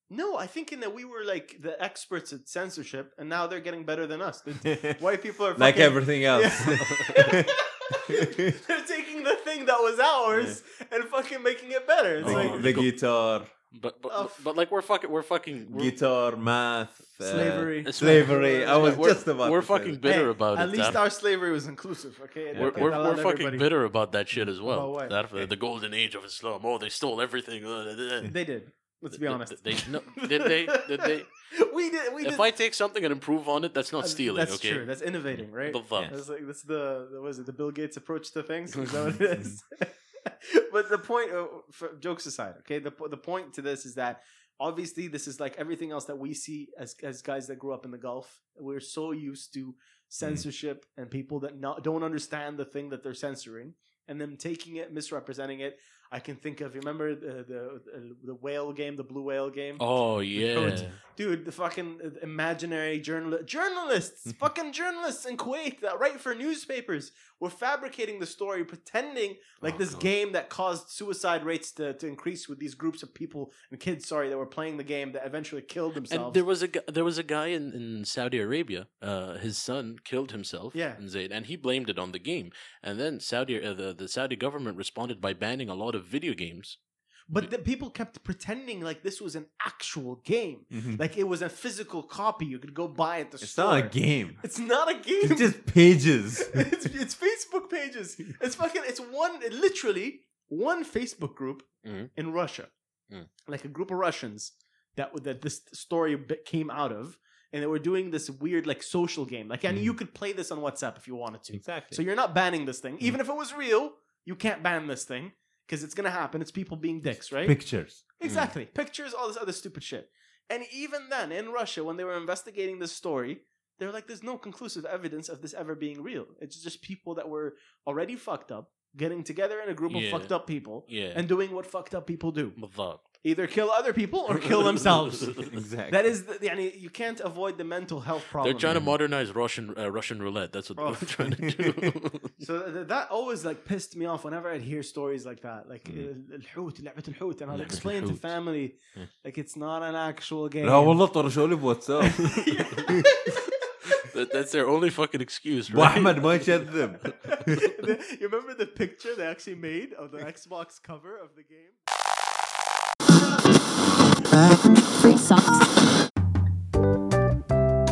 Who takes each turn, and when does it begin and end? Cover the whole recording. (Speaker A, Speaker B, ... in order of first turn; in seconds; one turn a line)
Speaker A: 0.1-12.7
Speaker B: 4.6-5.0
Speaker B: 5.5-8.5
Speaker C: 6.7-7.2
Speaker B: 10.3-10.6
Speaker C: 12.2-12.9
Speaker B: 12.2-13.5
Speaker C: 13.7-15.9
Speaker A: 14.1-14.4
Speaker B: 15.7-20.0
Speaker A: 17.2-19.2
Speaker C: 17.8-21.0
Speaker A: 20.0-23.7
Speaker B: 22.5-23.0
Speaker C: 22.5-28.3
Speaker A: 24.6-25.2
Speaker A: 28.2-32.4
Speaker C: 29.1-31.3
Speaker C: 32.2-34.9
Speaker A: 34.0-59.8
Speaker C: 35.6-36.1
Speaker C: 59.8-61.0
Speaker A: 60.4-76.4
Speaker C: 69.7-70.1
Speaker C: 76.1-86.8
Speaker A: 80.7-81.0
Speaker A: 87.3-95.6
Speaker B: 90.7-91.0
Speaker B: 93.4-94.4
Speaker B: 95.2-96.7
Speaker A: 96.3-102.7
Speaker C: 101.8-102.1
Speaker A: 103.5-117.6
Speaker B: 111.5-112.0
Speaker B: 117.4-118.0
Speaker A: 118.2-132.6
Speaker C: 118.3-118.5
Speaker C: 129.9-130.3
Speaker C: 130.8-131.2
Speaker C: 132.6-133.0
Speaker A: 133.2-138.8
Speaker C: 134.8-135.4
Speaker B: 135.4-136.1
Speaker C: 138.4-142.3
Speaker B: 138.7-138.9
Speaker A: 140.8-141.1
Speaker B: 141.5-141.9
Speaker A: 142.4-151.0
Speaker B: 147.5-148.2
Speaker C: 147.5-148.2
Speaker B: 150.6-153.1
Speaker A: 152.1-154.0
Speaker C: 153.9-156.6
Speaker B: 155.7-157.8
Speaker A: 157.1-161.8